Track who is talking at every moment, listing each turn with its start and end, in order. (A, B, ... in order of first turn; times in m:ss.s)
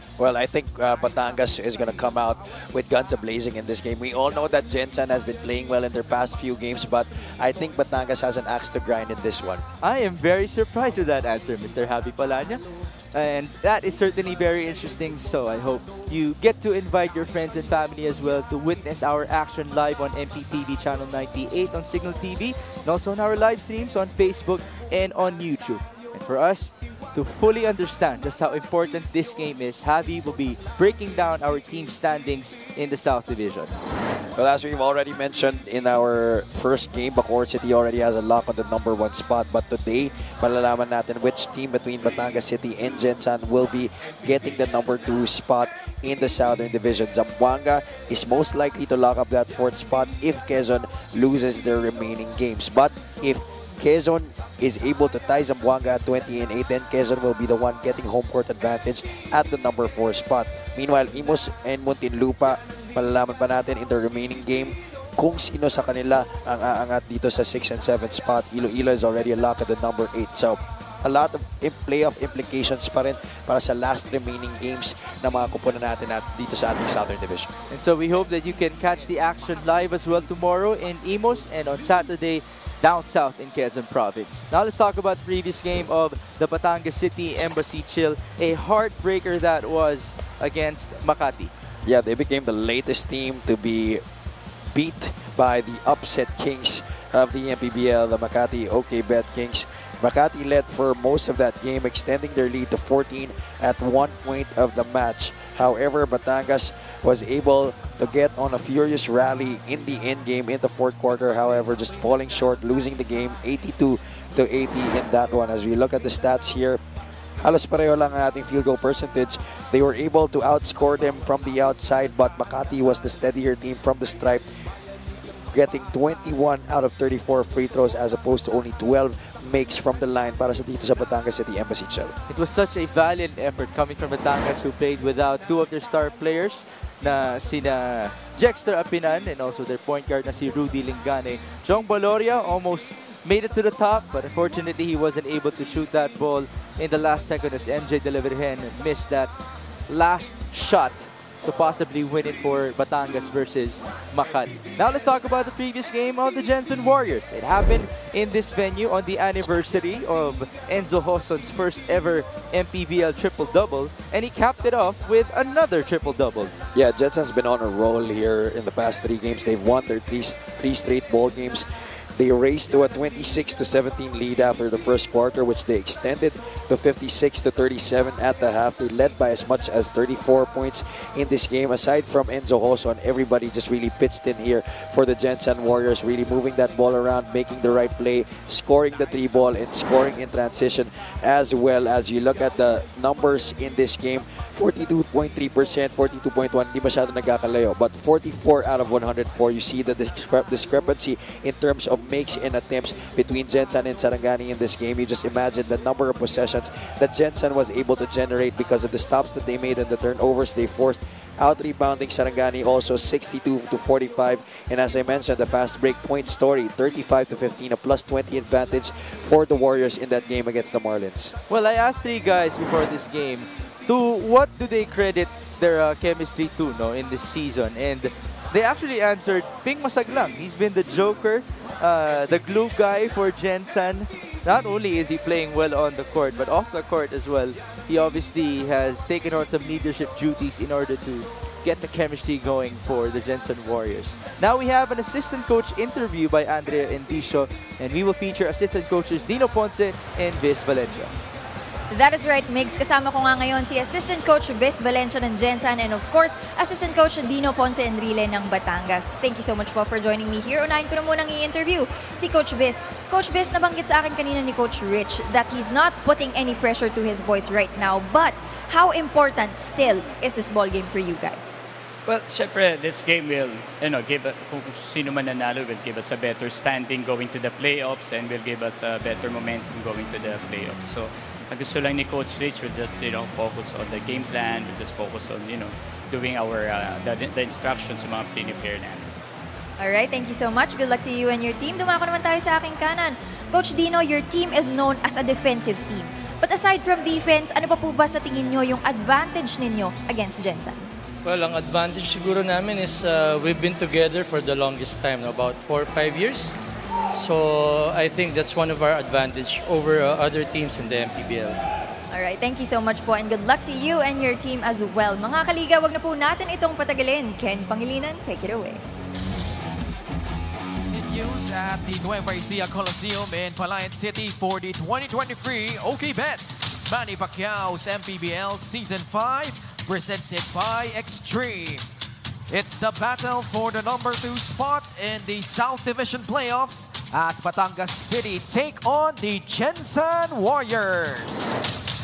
0:00.2-0:09.6 A
0:09.8-0:33.8 B
0:34.4-1:17.5 A
1:17.7-1:31.5 B
1:31.8-1:34.0 A
1:34.7-1:56.8 A
1:57.4-2:04.6 A
2:05.3-2:12.1 A
2:12.3-2:29.3 B
2:29.9-2:46.6 B
2:46.7-3:41.3 A
3:41.5-4:11.1 B
4:11.9-4:31.6 C
4:32.1-4:49.1 D
4:49.8-5:00.9 C
5:01.2-5:06.6 E
5:07.1-5:11.6 E
5:12.1-5:18.8 C
5:20.9-5:31.9 F
5:32.5-5:41.6 F